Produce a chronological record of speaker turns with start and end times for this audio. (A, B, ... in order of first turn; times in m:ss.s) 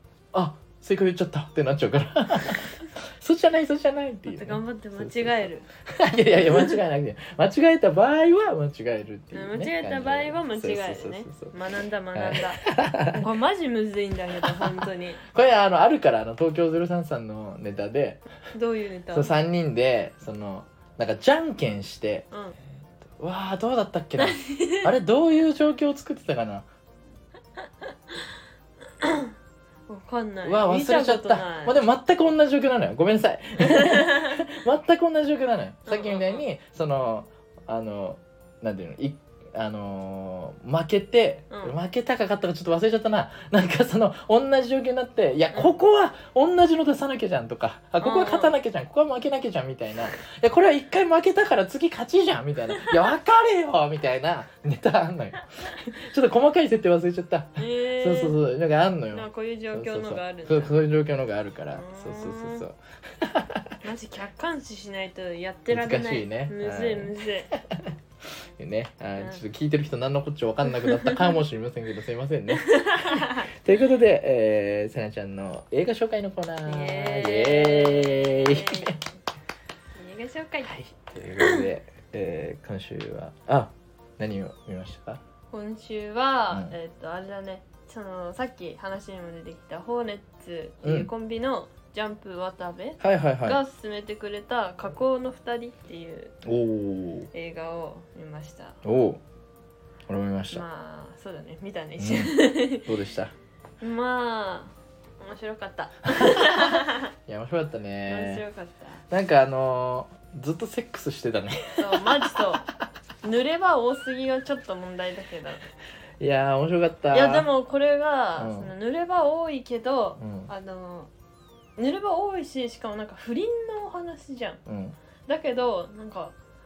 0:00.3-0:11.5 A
0:04.3-0:05.7 B
0:06.4-0:06.8 B
0:09.3-0:15.2 B
0:12.1-0:13.2 A
0:14.4-0:18.2 A
0:18.5-0:19.3 B
0:19.1-0:22.3 A
0:23.1-0:26.7 A
0:24.2-0:24.9 B
0:29.0-0:29.3 B
0:29.9-0:31.8 B
0:30.4-1:03.7 A
0:33.6-0:34.4 B
0:35.9-0:36.4 B
0:48.0-0:48.6 B
0:57.6-0:58.4 B
0:59.1-1:00.8 B
1:01.7-1:02.6 B
1:03.8-1:07.5 B
1:05.7-1:07.9 A
1:08.6-1:19.0 A
1:09.2-1:09.4 B
1:11.0-1:11.2 B
1:12.5-1:13.5 B
1:16.7-1:19.0 B
1:20.0-1:20.8 B
1:20.7-1:25.2 A
1:21.4-1:21.7 B
1:25.5-1:36.3 B
1:30.8-1:31.1 A
1:33.0-1:33.6 A
1:36.4-1:37.3 A
1:37.3-1:38.8 B
1:38.8-1:39.2 A
1:40.1-1:40.6 A
1:40.5-1:42.9 B
1:42.0-1:43.3 A
1:43.8-1:47.1 B
1:46.1-1:48.4 A
1:48.1-1:49.0 B
1:49.1-1:52.6 A
1:51.8-1:52.6 B
1:53.2-1:55.6 B
1:56.2-1:57.5 A
1:57.1-2:01.1 B
1:58.4-1:58.7 A
2:00.2-2:00.5 A
2:01.8-2:04.6 B
2:04.7-2:05.0 A
2:05.3-2:06.3 B